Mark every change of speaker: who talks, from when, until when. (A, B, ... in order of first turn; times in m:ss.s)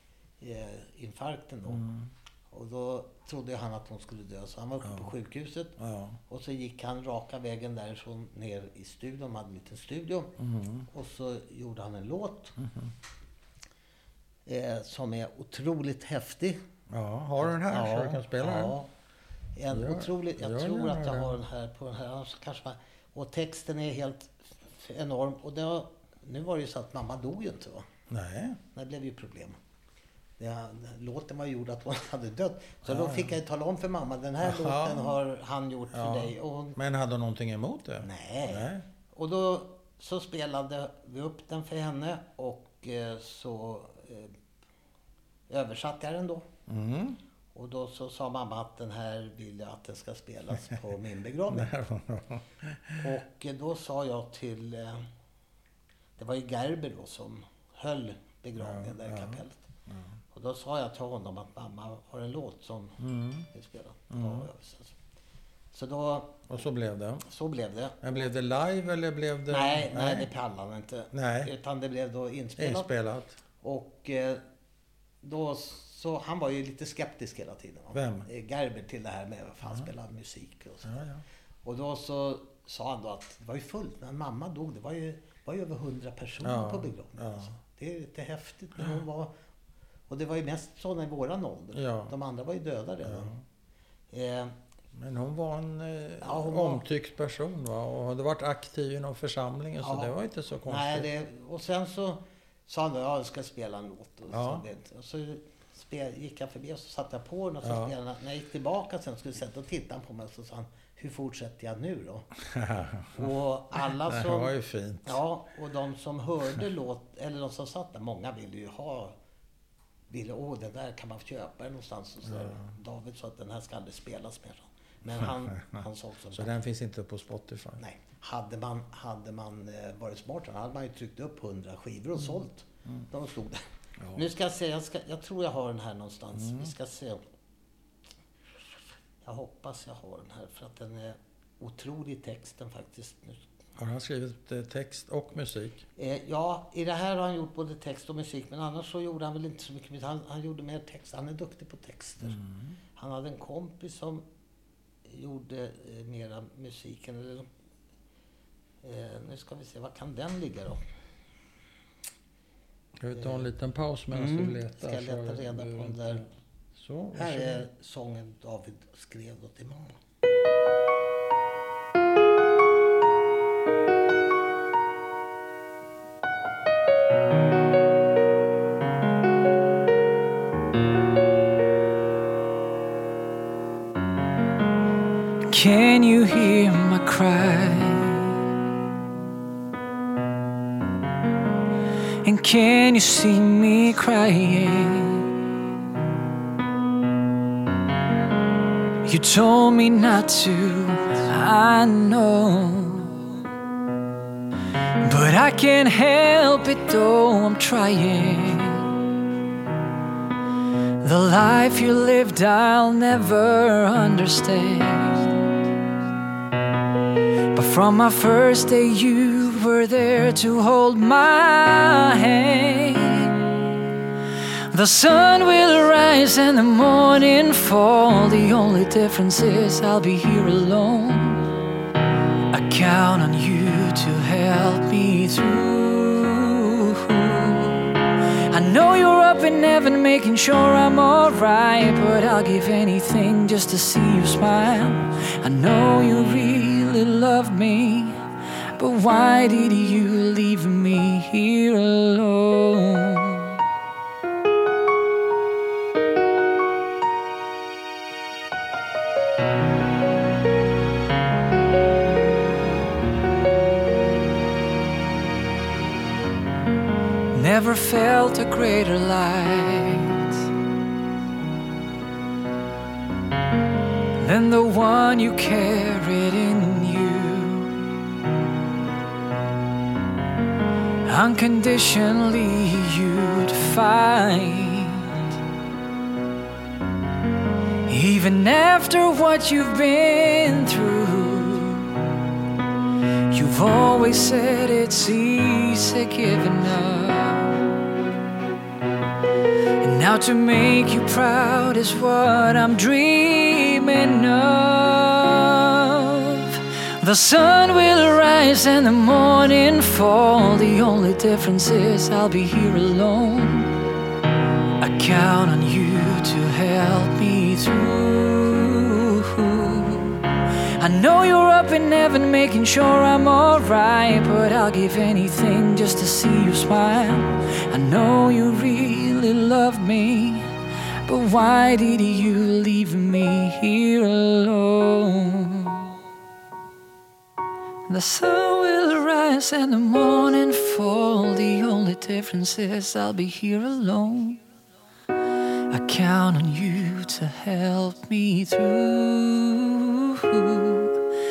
0:00.4-0:01.9 A
0:01.7-0:02.1 B
0:02.5-0:05.8 A
0:04.8-0:05.1 B
0:05.8-0:06.2 B
0:06.3-0:10.3 A
0:10.4-0:10.9 B
0:10.9-0:12.5 A
0:12.6-0:12.9 B
0:14.4-0:16.6 A
0:16.9-0:18.7 B
0:17.4-0:18.9 A
0:19.6-0:27.9 A
0:19.7-0:21.3 B
0:28.1-0:28.6 B
0:28.7-0:29.6 A
0:30.4-0:36.8 A
0:32.8-0:33.3 B
0:34.4-0:35.2 B
0:35.9-0:38.8 B
0:38.0-0:44.3 A
0:45.5-0:46.4 A
0:46.7-0:47.2 B
0:47.5-0:51.7 A
0:51.5-0:53.1 B
0:53.0-0:55.1 A
0:56.2-0:59.6 A
0:58.6-1:00.1 B
1:00.3-1:03.0 A
1:03.0-1:03.5 B
1:03.5-1:04.9 A
1:04.1-1:04.5 B
1:05.7-1:06.5 A
1:06.5-1:07.2 B
1:07.2-1:08.3 A
1:08.0-1:10.3 B
1:09.5-1:12.9 A
1:11.1-1:11.5 B
1:12.6-1:13.4 B
1:13.6-1:14.4 A
1:15.2-1:20.9 A
1:17.9-1:18.3 B
1:20.8-1:21.2 B
1:21.6-1:29.3 A
1:26.4-1:27.5 B
1:28.8-1:29.0 B
1:30.1-1:33.3 A
1:31.7-1:32.1 B
1:33.0-1:33.4 B
1:34.1-1:34.5 A
1:34.9-1:41.1 B
1:36.2-1:36.8 A
1:39.8-1:40.1 A
1:40.6-1:52.3 A
1:44.3-1:44.6 B
1:47.6-1:47.9 B
1:52.4-1:55.2 B
1:53.1-1:54.5 A
1:55.0-1:59.1 A
2:00.1-2:06.6 A
2:02.3-2:02.7 B
2:05.2-2:07.8 B
2:07.8-2:13.6 A
2:14.1-2:17.2 A
2:16.4-2:16.7 B
2:19.2-2:23.4 A
2:23.8-2:25.8 B
2:26.0-2:32.4 A
2:32.3-2:32.8 B
2:33.0-2:34.2 A
2:35.0-2:37.5 A
2:38.8-2:40.8 A
2:43.0-2:47.6 B
2:43.1-2:43.5 A
2:44.1-2:46.2 A
2:47.2-2:50.0 A
3:05.5-3:08.4 C
3:12.2-3:15.3 C
3:19.0-3:23.1 C
3:25.0-3:28.9 C
3:31.0-3:35.4 C
3:37.5-3:43.6 C
3:44.7-3:51.5 C
3:52.5-4:08.2 C
4:08.8-4:13.6 C
4:27.3-4:30.5 C
4:34.2-4:37.8 C
4:41.0-4:45.2 C
4:47.9-4:52.1 C
4:53.3-4:57.7 C
4:59.8-5:13.8 C
5:14.8-5:30.5 C
5:31.0-5:35.9 C
5:37.9-5:44.4 C
5:45.7-5:51.1 C